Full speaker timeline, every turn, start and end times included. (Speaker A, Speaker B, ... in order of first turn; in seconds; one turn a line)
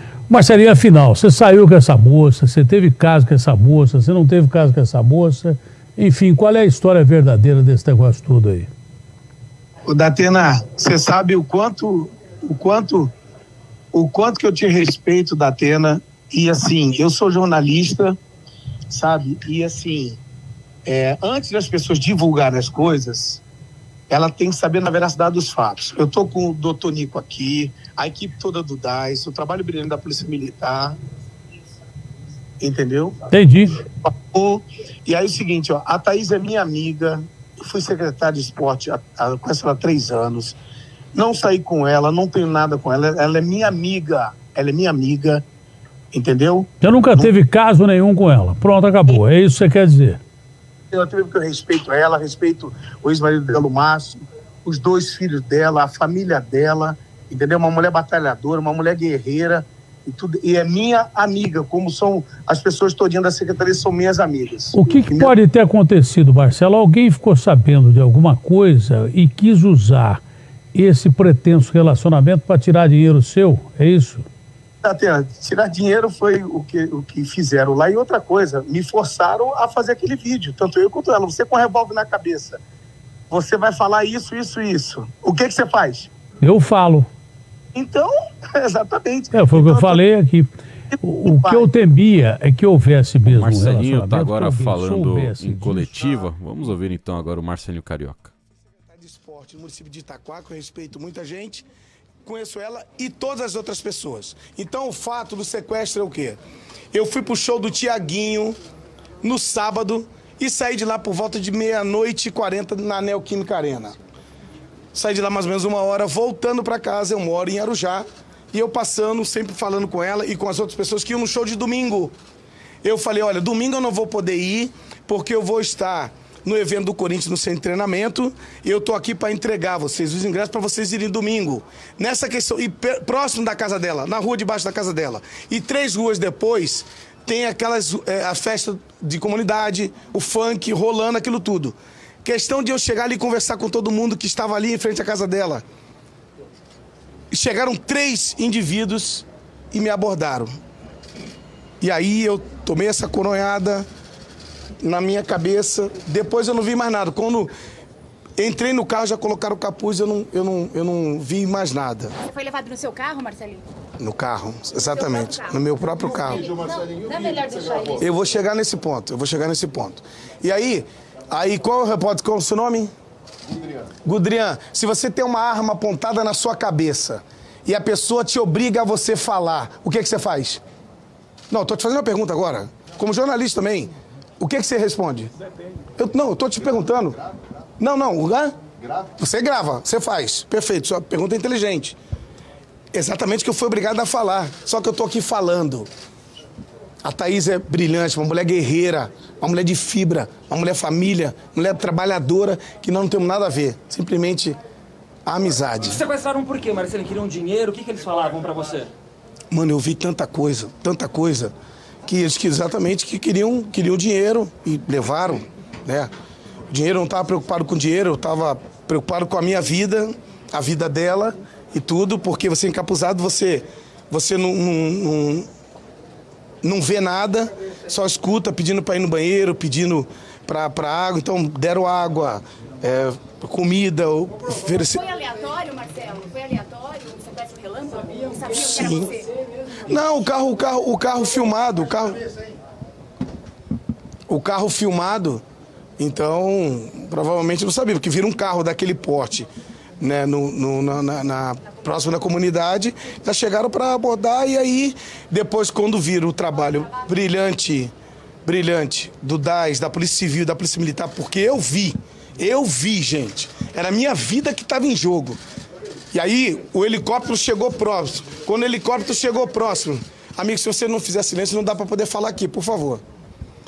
Speaker A: 0.3-8.7
Speaker B: 9.8-13.1
Speaker B: 13.9-18.2
Speaker B: 18.9-20.2
Speaker B: 20.8-23.4
Speaker B: 24.1-30.9
Speaker B: 32.6-33.2
Speaker A: 33.3-33.8
Speaker B: 34.0-40.6
Speaker B: 41.1-45.4
Speaker B: 46.1-47.3
Speaker A: 46.8-50.2
Speaker B: 50.9-65.3
Speaker A: 64.7-70.2
Speaker A: 70.7-74.2
Speaker B: 74.8-82.6
Speaker B: 83.3-86.1
Speaker A: 86.4-87.1
Speaker B: 87.7-90.0
Speaker A: 89.3-90.5
Speaker B: 90.9-91.7
Speaker A: 91.0-96.1
Speaker C: 93.2-98.3
Speaker B: 98.8-101.6
Speaker B: 102.2-106.4
Speaker B: 106.9-108.5
Speaker B: 109.2-114.0
Speaker B: 114.9-122.1
Speaker B: 122.8-145.6
Speaker B: 147.3-150.5
Speaker B: 151.8-153.8
Speaker B: 154.8-157.5
Speaker B: 158.4-162.1
Speaker D: 162.2-163.6
Speaker B: 164.0-166.5
Speaker D: 164.9-165.5
Speaker D: 166.4-168.0
Speaker B: 168.0-172.9
Speaker B: 174.0-180.6
Speaker B: 181.5-185.3
Speaker B: 185.9-187.2
Speaker B: 187.8-188.6
Speaker B: 189.2-192.0
Speaker B: 192.9-195.9
Speaker B: 197.0-204.6
Speaker B: 205.2-206.0
Speaker E: 205.8-208.9
Speaker B: 209.5-211.5
Speaker B: 212.1-216.1
Speaker B: 216.7-225.5
Speaker B: 226.6-235.0
Speaker D: 234.9-239.2
Speaker B: 238.5-239.2
Speaker B: 239.8-242.2
Speaker B: 244.3-245.4
Speaker B: 246.0-249.5
Speaker B: 250.0-257.9
Speaker B: 258.4-265.4
Speaker B: 266.1-273.0